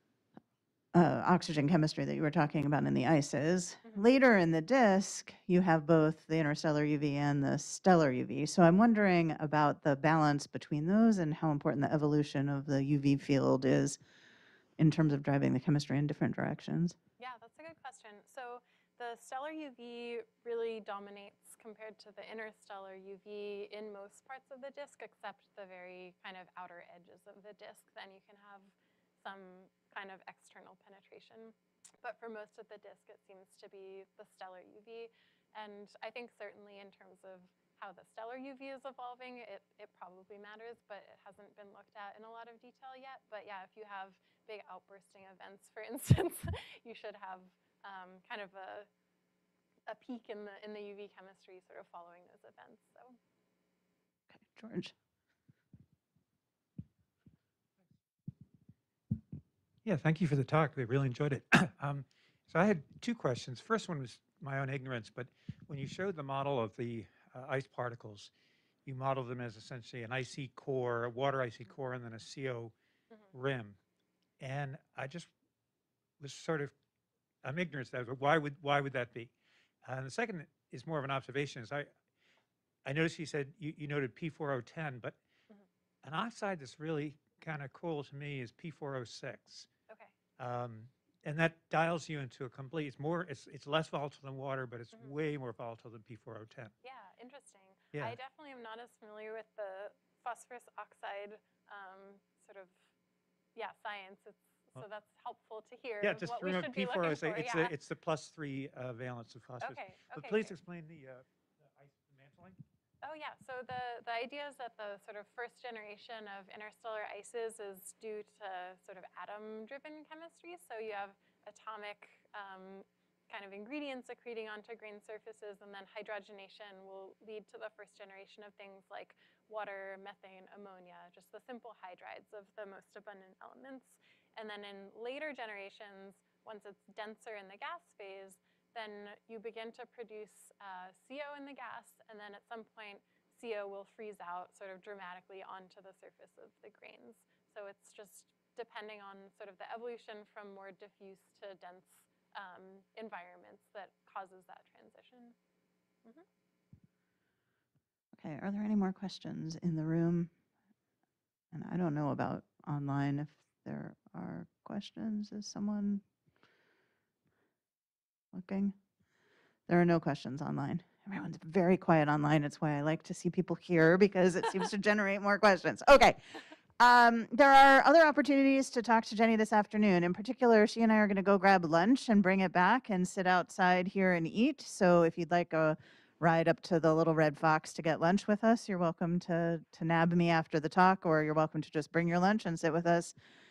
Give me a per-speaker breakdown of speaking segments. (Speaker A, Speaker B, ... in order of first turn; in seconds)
Speaker A: 0.9-14.0, 14.8-16.9, 54.3-54.9, 158.1-160.3, 161.5-166.0, 168.3-168.8, 169.7-193.1
Speaker B: 17.2-48.9, 49.9-53.2, 89.9-90.2, 96.8-102.8, 103.5-107.7, 109.6-110.6, 113.0-155.3
Speaker C: 59.8-68.3, 68.8-72.7, 73.3-73.8, 74.4-75.3, 76.2-76.7, 77.4-79.3, 79.8-81.9, 82.8-85.2, 86.0-89.7, 90.4-96.7, 106.0-112.6